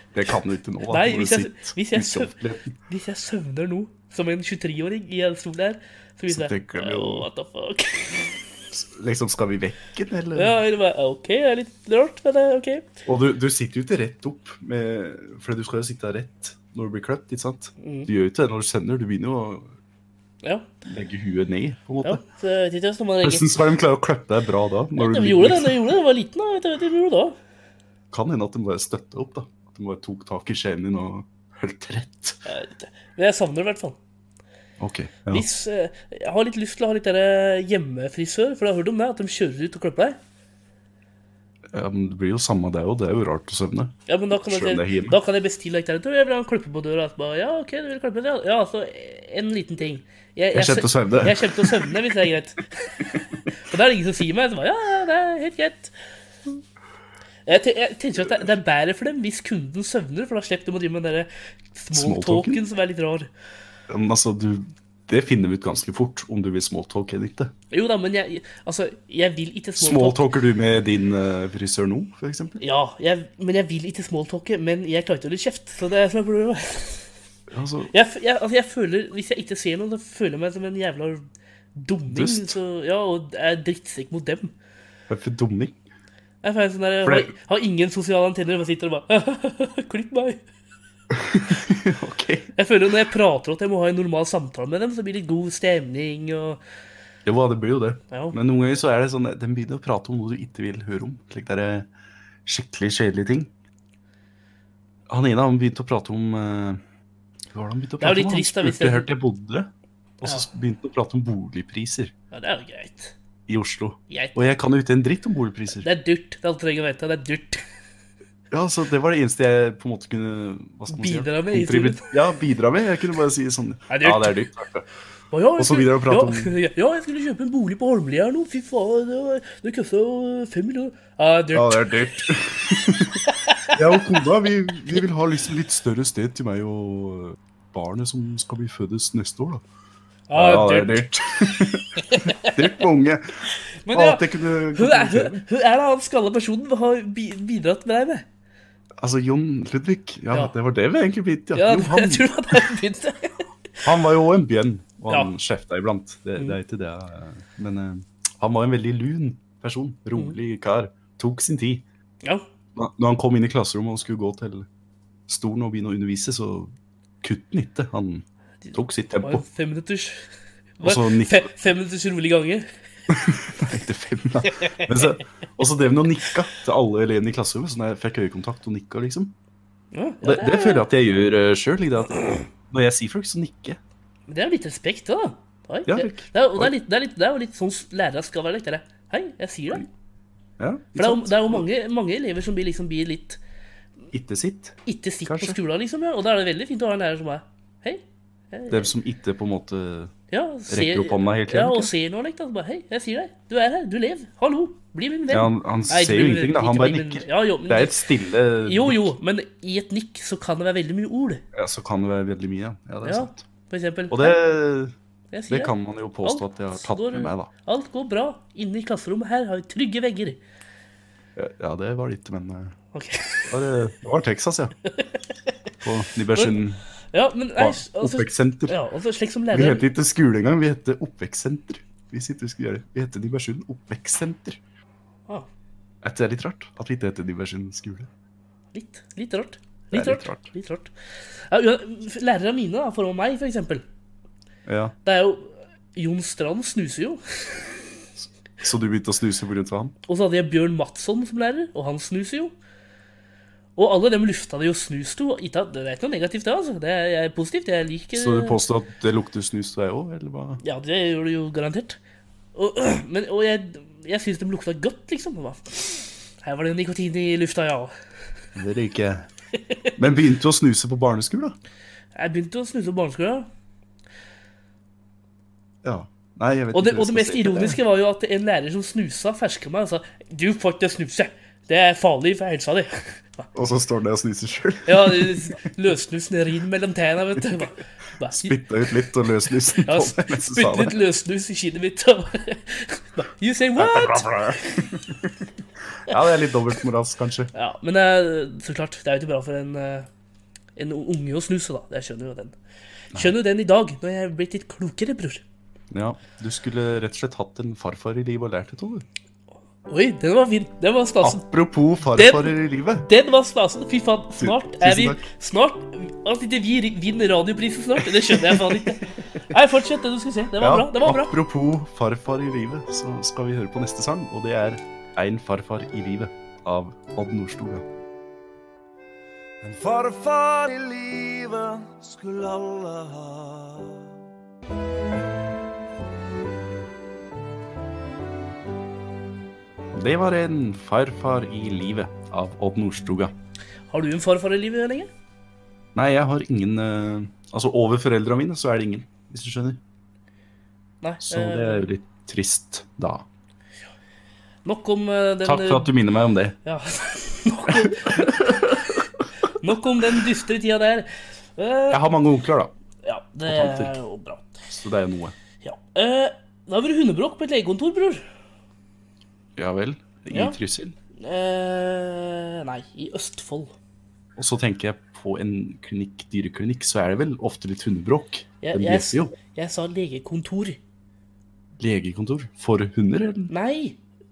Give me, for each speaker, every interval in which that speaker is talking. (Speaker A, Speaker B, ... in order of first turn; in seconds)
Speaker A: 0.1-2.8, 6.3-7.3, 8.7-10.6, 13.1-19.7, 20.8-22.2, 23.2-25.9, 28.1-32.4, 34.8-35.5, 41.7-45.2, 50.5-52.0, 61.9-62.6, 63.9-67.5, 69.8-72.6, 77.5-77.9, 82.1-82.6, 85.1-85.8, 87.0-87.3, 91.1-92.5, 97.2-101.9, 102.5-103.5, 105.1-106.8, 107.5-112.1, 113.5-115.9, 118.5-124.9, 125.6-126.5, 131.5-139.6, 140.3-143.4, 143.9-145.4, 149.0-152.6, 153.8-161.8, 162.8-164.7, 165.3-166.7, 167.2-169.4, 170.8-171.5, 173.1-179.3, 180.2-183.8, 185.9-186.7, 190.6-191.7, 194.1-195.6, 198.7-200.1, 200.7-201.9, 205.3-209.2, 211.5-213.4, 214.1-214.9, 215.5-217.5, 221.4-222.8, 223.5-224.8, 225.8-226.8, 227.6-228.8, 229.5-234.6, 236.0-238.1, 239.9-240.5, 244.7-244.9, 248.6-250.0, 258.1-260.6, 268.6-269.3, 270.0-271.6, 275.8-277.8, 283.5-285.6, 288.3-291.0, 293.8-295.4, 296.0-297.5, 305.9-309.1, 311.2-313.1, 314.4-315.3, 318.0-319.0, 320.6-327.8, 339.9-343.3, 345.9-349.8, 351.2-353.2, 355.4-356.6, 357.7-359.0, 361.9-362.7, 363.5-363.9, 364.7-365.4, 369.6-371.0, 374.4-379.3, 381.8-383.5
Speaker B: 0.9-2.3, 2.9-8.4, 10.3-12.9, 17.8-18.1, 20.4-20.7, 22.0-23.5, 25.0-27.4, 32.5-34.0, 35.3-40.2, 44.1-55.9, 57.5-63.3, 67.7-70.2, 72.6-77.1, 77.9-81.2, 81.8-84.5, 86.4-90.4, 92.6-96.6, 98.1-98.4, 108.0-109.1, 112.3-113.1, 114.1-114.4, 115.8-117.6, 120.9-122.1, 123.9-124.4, 125.3-132.1, 133.3-134.2, 140.3-141.0, 142.0-142.8, 143.8-148.2, 151.6-153.4, 168.7-172.7, 174.5-175.1, 179.9-180.8, 184.3-189.9, 191.0-193.4, 194.9-198.9, 200.3-208.0, 208.7-211.4, 213.0-214.4, 215.3-215.7, 216.2-220.4, 222.9-223.5, 227.1-229.8, 238.7-240.9, 241.5-243.8, 245.1-247.8, 250.1-252.5, 253.8-258.6, 260.6-262.0, 262.6-267.9, 272.1-273.5, 276.7-283.5, 284.9-288.6, 289.9-294.5, 297.5-300.1, 300.8-302.6, 303.1-305.4, 309.9-311.4, 312.1-312.5, 313.1-321.4, 343.9-345.1, 351.0-351.9, 354.6-355.9, 356.6-358.7, 359.6-362.0, 363.0-364.5, 365.6-368.2, 370.3-370.6, 371.2-373.7, 378.6-380.8, 383.5-384.0
Speaker C: 329.6-334.0